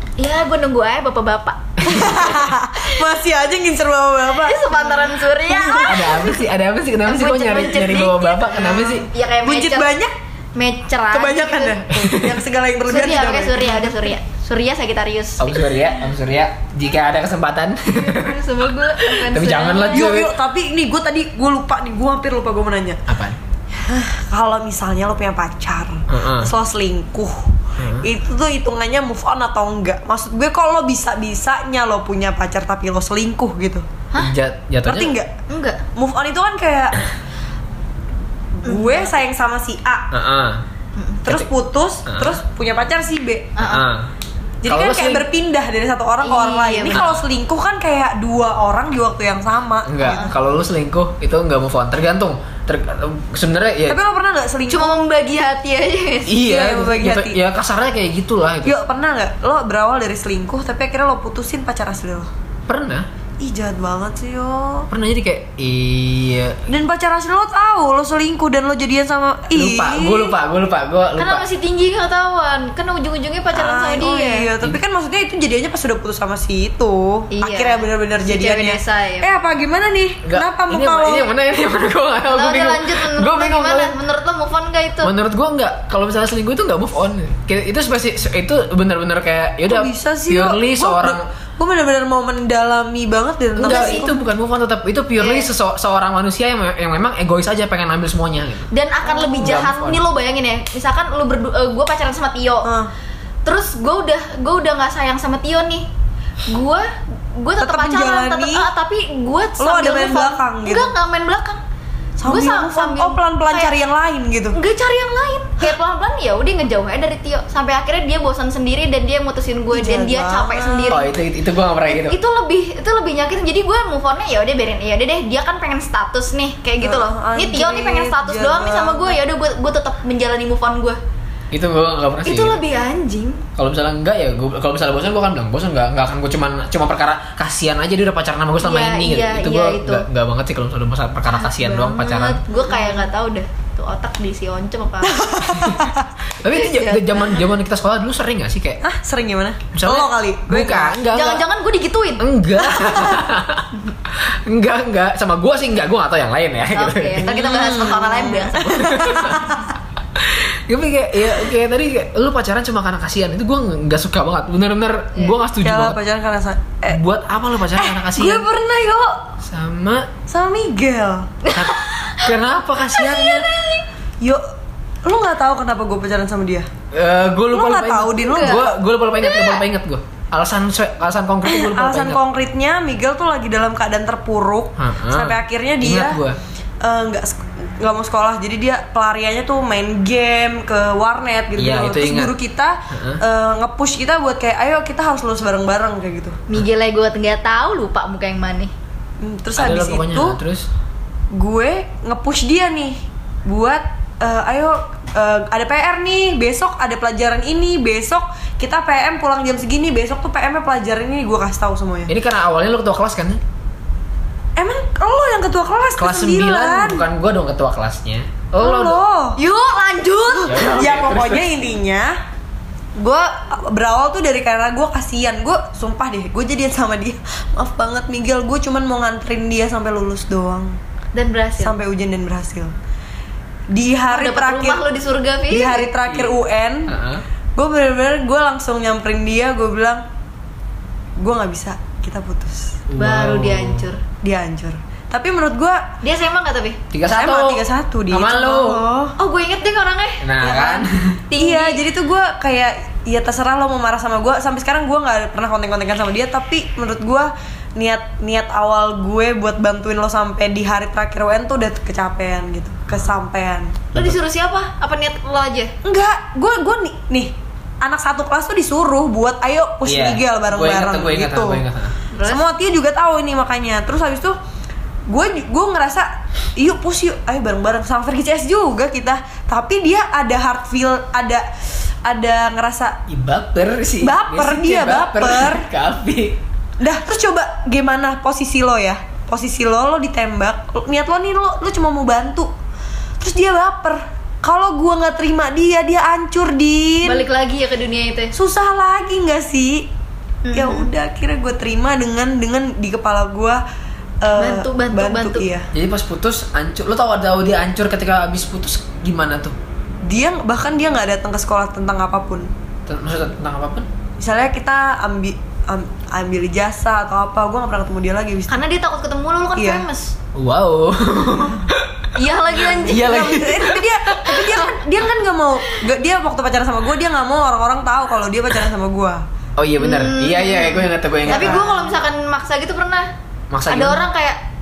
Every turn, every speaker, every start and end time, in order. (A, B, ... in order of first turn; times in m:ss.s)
0:00.2-0:03.0 A
0:01.8-0:02.3 B
0:01.8-0:06.2 C
0:04.3-0:06.4 A
0:05.9-0:09.1 B
0:07.0-0:09.9 A
0:08.6-0:10.1 C
0:10.6-0:11.8 A
0:11.1-0:14.1 C
0:12.0-0:12.4 B
0:12.9-0:15.9 A
0:15.4-0:20.3 B
0:18.0-0:20.1 A
0:19.9-0:23.0 C
0:23.1-0:23.4 B
0:23.8-0:33.8 C
0:26.1-0:26.5 B
0:27.8-0:28.0 B
0:34.2-0:35.1 B
0:34.8-0:35.3 C
0:35.5-0:35.8 A
0:36.0-0:37.0 C
0:38.6-0:40.1 C
0:38.6-0:39.1 A
0:40.1-0:40.6 B
0:41.0-0:41.2 A
0:41.2-0:43.6 C
0:42.1-0:42.4 B
0:43.6-0:43.8 A
0:43.6-0:44.1 B
0:44.6-0:50.3 C
0:44.6-0:45.2 B
0:46.2-0:47.0 A
0:46.9-0:47.2 B
0:49.8-0:54.0 B
0:53.9-0:55.0 C
0:54.7-0:56.4 A
0:56.3-0:58.8 B
0:56.4-0:57.4 C
0:58.6-1:02.3 C
1:02.7-1:03.1 B
1:03.4-1:04.9 C
1:04.9-1:06.6 B
1:06.7-1:10.4 C
1:09.5-1:11.4 B
1:11.2-1:14.5 A
1:13.5-1:21.3 C
1:17.3-1:19.3 A
1:20.2-1:23.9 B
1:22.3-1:25.1 A
1:25.0-1:31.2 B
1:29.7-1:34.1 C
1:33.6-1:38.7 B
1:33.6-1:34.1 A
1:35.2-1:35.5 A
1:38.7-1:42.7 A
1:39.1-1:39.6 C
1:39.4-1:40.0 B
1:42.6-1:42.9 C
1:43.4-1:45.9 A
1:46.5-1:51.6 A
1:47.6-1:48.6 C
1:49.6-1:50.9 C
1:52.2-1:54.6 C
1:52.2-1:53.7 A
1:54.5-2:01.1 A
1:59.7-2:01.0 C
2:00.9-2:02.2 B
2:01.9-2:11.0 A
2:06.8-2:09.2 C
2:11.5-2:12.6 B
2:12.2-2:13.4 A
2:13.6-2:22.4 B
2:18.6-2:20.0 A
2:21.3-2:25.3 A
2:25.0-2:26.1 C
2:25.5-2:25.9 B
2:26.4-2:28.8 B
2:26.6-2:27.2 A
2:28.8-2:31.0 C
2:29.7-2:31.4 B
2:31.1-2:32.2 A
2:32.2-2:37.3 B
2:32.8-2:33.1 C
2:36.7-2:39.4 A
2:37.2-2:39.7 C
2:38.7-2:39.6 B
2:40.2-2:46.0 B
2:45.6-2:47.0 C
2:46.9-2:48.5 B
2:47.7-2:49.2 C
2:49.4-2:50.1 B
2:50.3-2:51.4 C
2:51.4-2:52.3 A
2:51.5-2:53.5 B
2:52.9-2:53.8 A
2:55.0-2:56.7 C
2:56.9-3:02.2 B
2:57.5-2:58.8 C
2:58.2-2:58.6 A
2:59.2-2:59.6 A
3:01.4-3:06.2 C
3:04.8-3:06.4 B
3:06.8-3:16.4 C
3:11.6-3:12.4 B
3:12.9-3:13.2 B
3:16.5-3:18.7 A
3:19.2-3:20.4 C
3:19.6-3:20.7 B
3:21.3-3:32.1 C
3:32.1-3:33.4 B
3:34.6-3:37.0 C
3:36.0-3:39.0 B
3:38.6-3:39.4 C
3:39.4-3:40.7 A
3:40.4-3:42.2 C
3:40.4-3:41.5 B
3:43.0-3:50.8 C
3:51.1-3:51.8 A
3:51.6-3:52.7 C
3:53.7-3:54.8 C
3:54.1-3:55.9 A
3:55.5-3:56.9 C
3:56.1-3:56.3 B
3:56.9-3:57.2 B
3:57.6-4:00.0 C
4:01.2-4:02.8 C
4:02.9-4:03.9 B
4:03.0-4:04.0 A
4:04.2-4:05.8 C
4:06.0-4:06.8 A
4:06.9-4:08.8 B
4:07.1-4:09.1 C
4:09.2-4:10.2 A
4:10.2-4:11.2 B
4:10.4-4:23.9 C
4:11.3-4:11.8 A
4:23.9-4:25.7 A
4:25.8-4:31.6 C
4:29.8-4:31.9 B
4:32.1-4:32.4 A
4:32.2-4:34.4 C
4:35.1-4:41.4 C
4:42.0-4:43.0 C
4:43.1-4:46.4 B
4:44.0-4:45.6 C
4:46.8-4:52.5 C
4:53.2-4:57.2 C
4:57.0-4:58.3 A
4:58.3-4:59.9 C
5:00.4-5:00.9 A
5:00.5-5:03.6 C
5:04.2-5:05.7 C
5:04.4-5:05.4 A
5:05.7-5:09.6 B
5:10.0-5:12.5 C
5:12.8-5:13.9 B
5:14.2-5:18.6 C
5:18.5-5:20.1 A
5:19.6-5:19.8 C
5:20.3-5:22.1 B
5:22.2-5:23.5 A
5:22.7-5:24.4 B
5:22.9-5:29.2 C
5:24.2-5:24.7 A
5:29.6-5:31.6 B
5:29.8-5:33.1 A
5:31.2-5:32.0 C
5:33.5-5:34.0 B
5:33.6-5:34.4 A